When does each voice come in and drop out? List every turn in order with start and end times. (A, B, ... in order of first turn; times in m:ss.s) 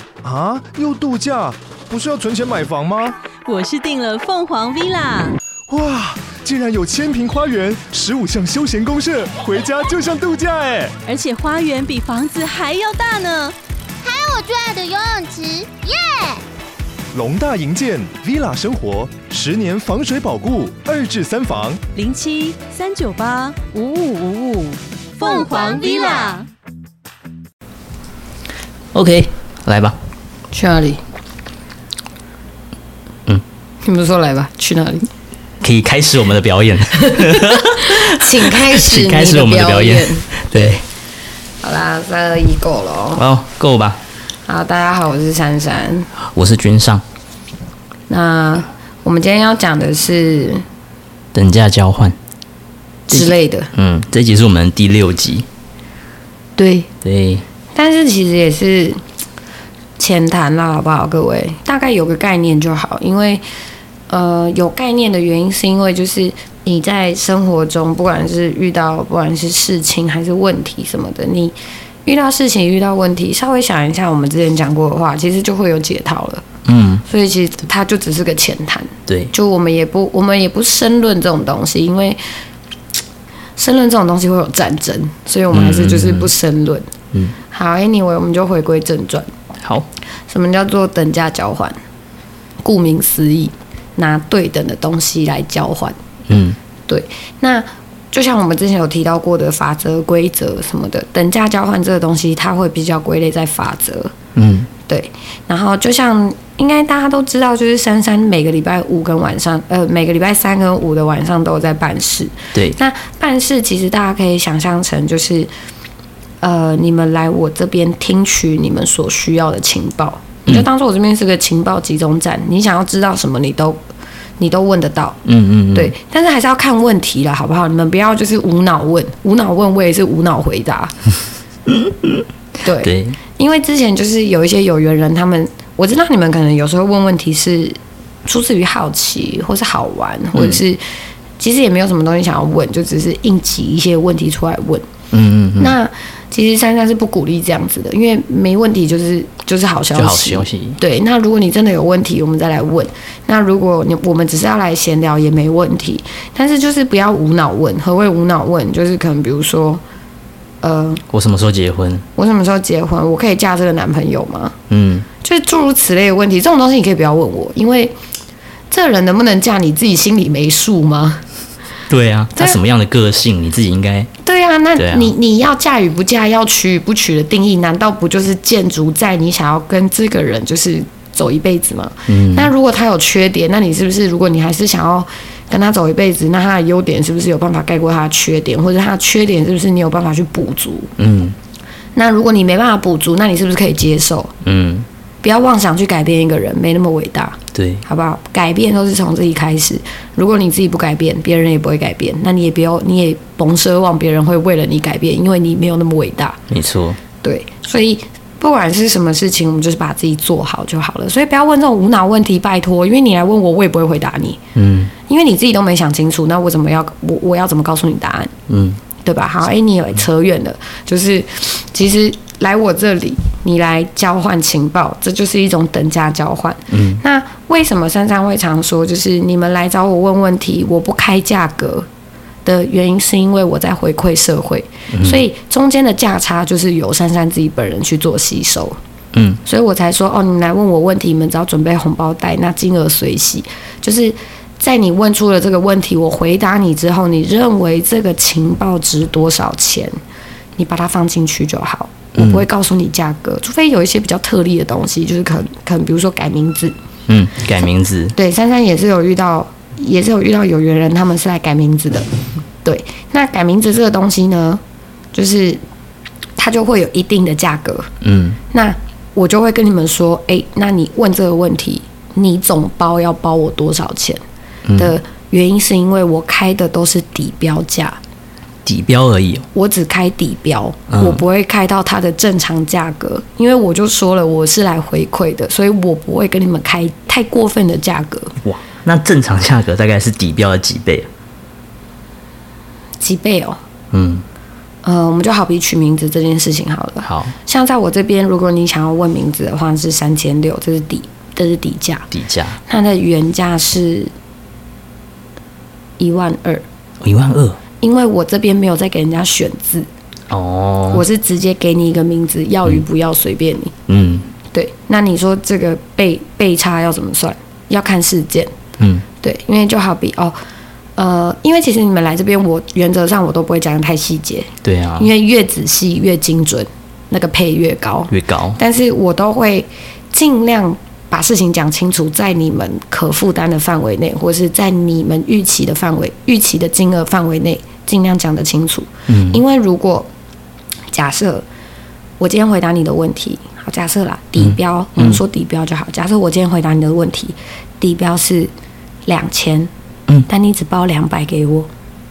0:00.2-0:03.2 A
0:03.4-0:05.4 B
0:05.7-0:10.9 A
0:11.0-0:13.5 B
0:14.0-0:16.4 C
0:17.1-0:21.8 A
0:21.9-0:26.4 B
0:25.2-0:26.4 C
0:28.9-0:30.0 D
0:30.5-0:31.0 E
0:33.8-0:35.0 E
0:35.6-0:40.8 D
0:37.0-0:40.7 E
0:41.6-0:43.2 E
0:43.1-0:44.0 D
0:44.5-0:46.1 E
0:46.2-0:47.0 D
0:48.1-0:50.6 E
0:51.3-0:52.2 D
0:53.1-0:53.7 E
0:53.1-0:55.4 D
0:56.6-0:56.9 E
0:57.0-0:57.4 D
0:57.7-0:59.0 E
1:00.0-1:03.4 E
1:04.1-1:16.4 E
1:16.6-1:17.0 D
1:17.0-1:22.2 E
1:19.1-1:19.3 D
1:23.6-1:26.9 E
1:25.5-1:26.3 D
1:27.5-1:29.3 E
1:29.6-1:29.9 D
1:30.3-1:31.7 E
1:32.6-1:36.0 E
1:36.3-1:36.6 D
1:36.9-1:44.1 E
1:44.3-1:44.7 D
1:44.9-1:55.5 E
1:56.4-2:03.8 E
2:04.4-2:05.2 E
2:05.2-2:05.9 D
2:05.7-2:10.9 E
2:11.7-2:12.2 D
2:12.6-2:20.8 E
2:12.8-2:13.2 D
2:21.4-2:24.8 E
2:25.1-2:25.7 D
2:25.6-2:39.8 E
2:29.9-2:30.8 D
2:40.6-2:41.0 E
2:41.1-2:42.0 D
2:42.2-2:44.5 E
2:44.7-2:45.1 D
2:45.2-2:48.0 E
2:48.7-2:51.2 E
2:51.9-2:54.1 D
2:54.2-3:10.9 E
2:54.8-2:55.1 D
3:02.1-3:02.5 D
3:11.0-3:11.4 D
3:11.9-3:14.3 E
3:14.4-3:14.9 D
3:15.2-3:26.4 E
3:17.5-3:17.8 D
3:26.5-3:27.0 D
3:27.2-3:34.4 E
3:34.5-3:34.9 D
3:35.0-3:38.3 E
3:38.5-3:38.8 D
3:39.0-3:51.9 E
3:46.7-3:47.0 D
3:52.4-3:58.8 E
3:54.9-3:55.2 D
3:59.1-3:59.4 D
3:59.4-4:10.0 E
4:10.6-4:16.7 E
4:12.1-4:12.4 D
4:17.1-4:18.1 D
4:18.1-4:22.1 E
4:22.6-4:24.6 E
4:25.1-4:25.6 E
4:26.4-4:27.9 E
4:28.0-4:28.4 D
4:28.5-4:34.2 E
4:34.6-4:35.0 D
4:34.8-4:38.0 E
4:38.6-4:39.5 D
4:39.5-4:48.4 E
4:40.9-4:41.2 D
4:48.4-4:51.1 D
4:53.0-4:53.6 E
4:53.9-4:54.2 D
4:54.8-5:02.1 E
4:57.0-4:57.3 D
5:02.1-5:02.6 D
5:02.7-5:04.1 E
5:06.0-5:06.6 E
5:07.0-5:07.6 D
5:07.8-5:09.9 E
5:10.3-5:11.0 D
5:10.9-5:13.7 E
5:13.9-5:14.3 D
5:14.5-5:18.5 E
5:18.8-5:19.0 D
5:19.2-5:20.3 E
5:21.0-5:40.1 E
5:24.6-5:25.1 D
5:28.1-5:28.6 D
5:39.1-5:39.4 D
5:40.9-5:41.4 E
5:42.2-5:48.5 E
5:44.4-5:45.2 D
5:49.0-5:49.7 E
5:50.3-5:51.7 E